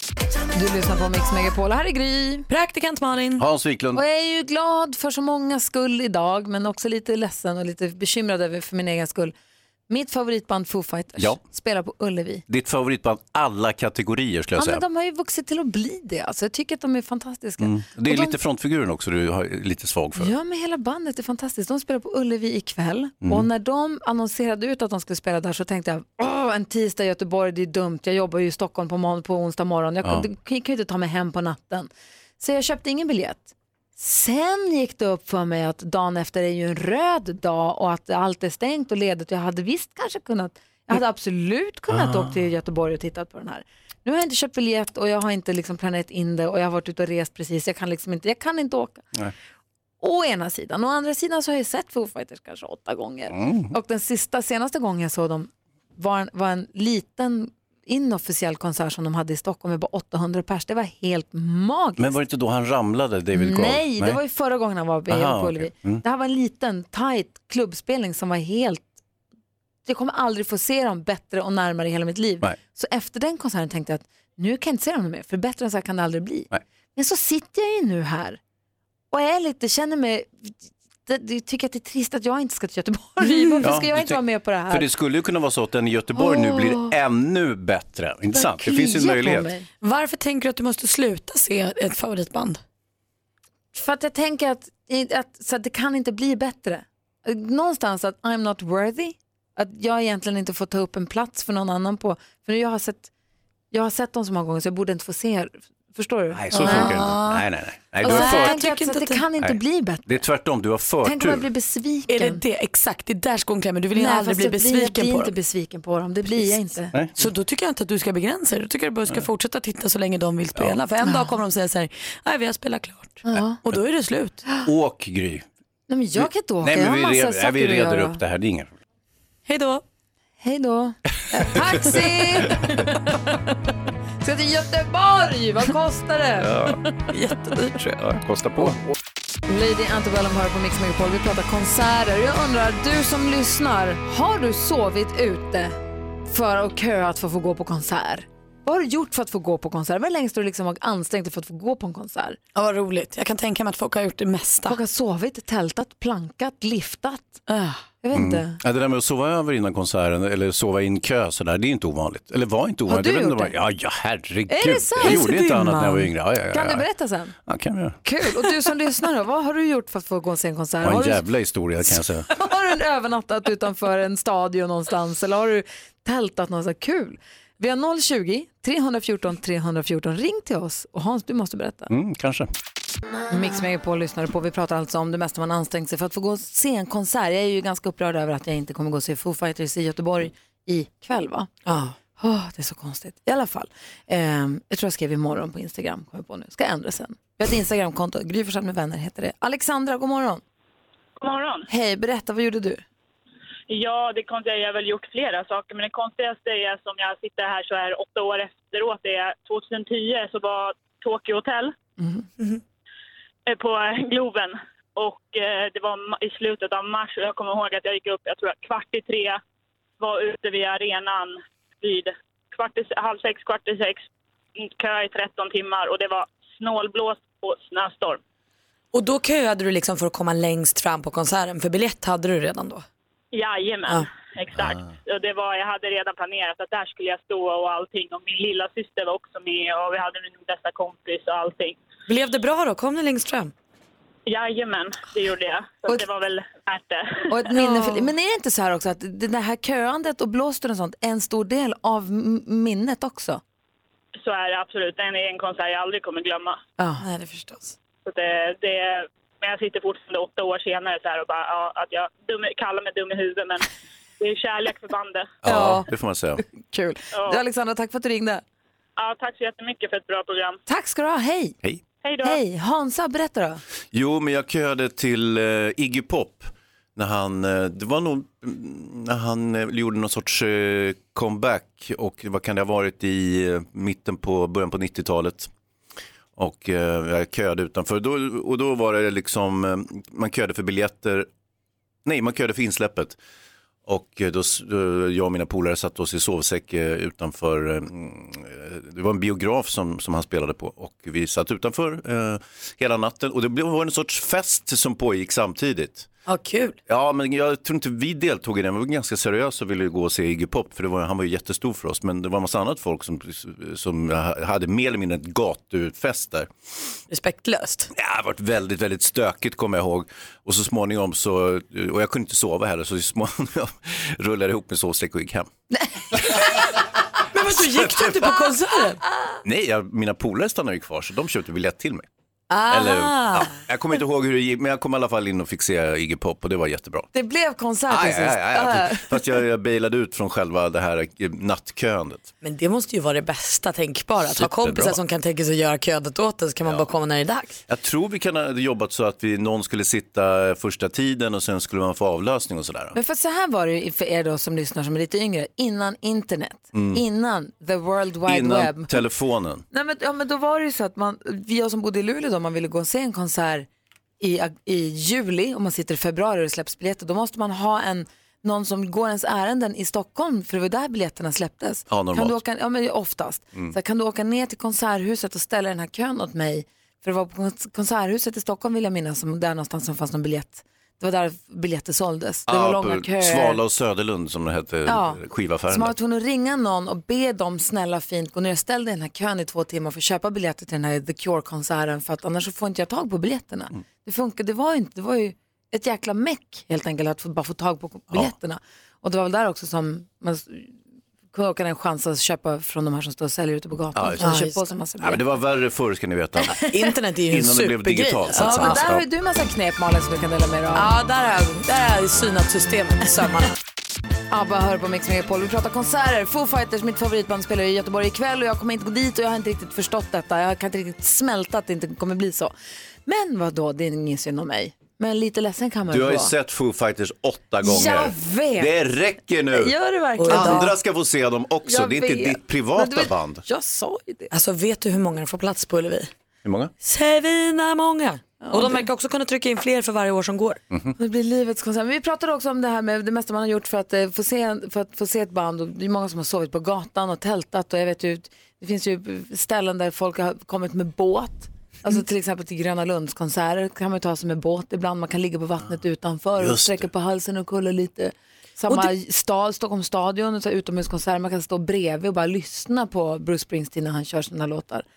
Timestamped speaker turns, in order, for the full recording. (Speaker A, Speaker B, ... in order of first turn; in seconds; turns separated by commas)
Speaker A: 0.5-2.5, Speaker B: 2.5-3.4, Speaker C: 3.4-4.0, Speaker A: 3.9-9.3, Speaker A: 9.9-12.4, Speaker C: 12.5-14.8, Speaker A: 14.6-18.4, Speaker C: 17.6-20.3, Speaker A: 20.2-49.0, Speaker C: 23.2-23.5, Speaker C: 41.9-42.3, Speaker A: 50.0-62.1, Speaker C: 53.3-53.7, Speaker C: 62.0-64.2, Speaker A: 63.3-68.9, Speaker C: 65.1-66.0, Speaker A: 69.8-78.4, Speaker A: 79.1-84.9, Speaker B: 83.2-83.5, Speaker C: 83.6-89.5, Speaker A: 86.1-86.9, Speaker A: 88.3-89.7, Speaker B: 89.8-92.6, Speaker A: 93.7-103.1, Speaker A: 103.7-107.3, Speaker C: 106.3-108.6, Speaker B: 106.5-107.3, Speaker B: 108.0-109.2, Speaker A: 108.0-110.2, Speaker C: 109.4-111.5, Speaker A: 111.0-112.4, Speaker B: 112.1-115.3, Speaker A: 113.9-116.9, Speaker B: 117.2-124.4, Speaker A: 121.0-121.3, Speaker A: 123.3-123.6, Speaker C: 124.6-125.5, Speaker A: 125.9-128.2, Speaker C: 126.2-128.7, Speaker B: 129.5-129.8, Speaker A: 130.4-133.3, Speaker A: 134.2-136.5, Speaker C: 136.4-136.8, Speaker B: 137.1-138.0, Speaker C: 137.8-138.8, Speaker A: 139.5-145.8, Speaker A: 146.3-152.4, Speaker B: 152.5-154.8, Speaker A: 154.7-157.4, Speaker B: 157.5-157.8, Speaker A: 158.0-158.6, Speaker C: 158.1-166.9, Speaker A: 162.9-163.6, Speaker A: 164.5-165.5, Speaker B: 165.0-166.1, Speaker A: 166.5-167.3, Speaker C: 167.4-168.0, Speaker A: 168.0-171.2, Speaker C: 170.8-172.3, Speaker A: 172.3-181.9, Speaker C: 181.9-182.5, Speaker A: 183.3-191.5, Speaker B: 191.7-191.9, Speaker A: 192.2-200.4, Speaker D: 201.2-201.7, Speaker A: 201.7-202.8, Speaker D: 203.7-211.7, Speaker D: 213.5-219.4, Speaker D: 220.0-224.0, Speaker D: 224.8-228.2, Speaker B: 228.9-232.8, Speaker D: 233.3-241.8, Speaker B: 242.1-243.5, Speaker D: 244.3-247.3, Speaker A: 247.3-253.4, Speaker B: 247.6-248.1, Speaker D: 254.2-256.6, Speaker A: 256.8-257.0, Speaker B: 257.0-257.7, Speaker D: 258.0-263.7, Speaker D: 264.2-265.3, Speaker C: 265.4-266.4, Speaker A: 265.4-265.9, Speaker A: 266.5-268.4, Speaker D: 267.1-267.4, Speaker D: 269.0-270.6, Speaker A: 270.7-271.6, Speaker D: 272.0-272.4, Speaker A: 272.2-273.6, Speaker C: 273.9-285.5, Speaker C: 286.4-291.3, Speaker C: 292.0-293.2, Speaker C: 293.9-306.1, Speaker B: 306.3-306.8, Speaker C: 306.9-316.5, Speaker B: 317.1-317.9, Speaker C: 317.9-325.5, Speaker B: 327.3-329.0, Speaker C: 327.7-328.4, Speaker C: 329.4-332.1, Speaker B: 332.5-333.5, Speaker C: 332.7-337.1, Speaker A: 337.1-339.2, Speaker C: 337.9-342.3, Speaker B: 342.4-347.6, Speaker C: 344.3-345.0, Speaker C: 347.7-352.9, Speaker A: 352.9-359.0, Speaker C: 356.7-357.0, Speaker C: 358.2-359.6, Speaker A: 359.7-363.7, Speaker A: 364.2-383.6, Speaker C: 371.9-372.4, Speaker C: 382.5-385.9, Speaker A: 384.9-400.8, Speaker A: 401.3-405.2, Speaker C: 403.9-404.4, Speaker B: 404.2-404.6, Speaker C: 405.0-406.6, Speaker B: 406.5-408.8, Speaker C: 407.3-409.0, Speaker A: 408.4-410.9, Speaker B: 410.7-413.6, Speaker A: 414.3-422.5, Speaker A: 423.1-426.3, Speaker C: 425.9-429.7, Speaker A: 427.6-428.7, Speaker A: 429.5-430.7, Speaker B: 430.2-430.7, Speaker C: 430.3-433.4, Speaker A: 431.6-434.3, Speaker B: 434.3-436.1, Speaker C: 436.4-436.7, Speaker B: 436.8-440.6, Speaker A: 438.4-438.8, Speaker A: 441.0-464.8, Speaker C: 456.4-456.9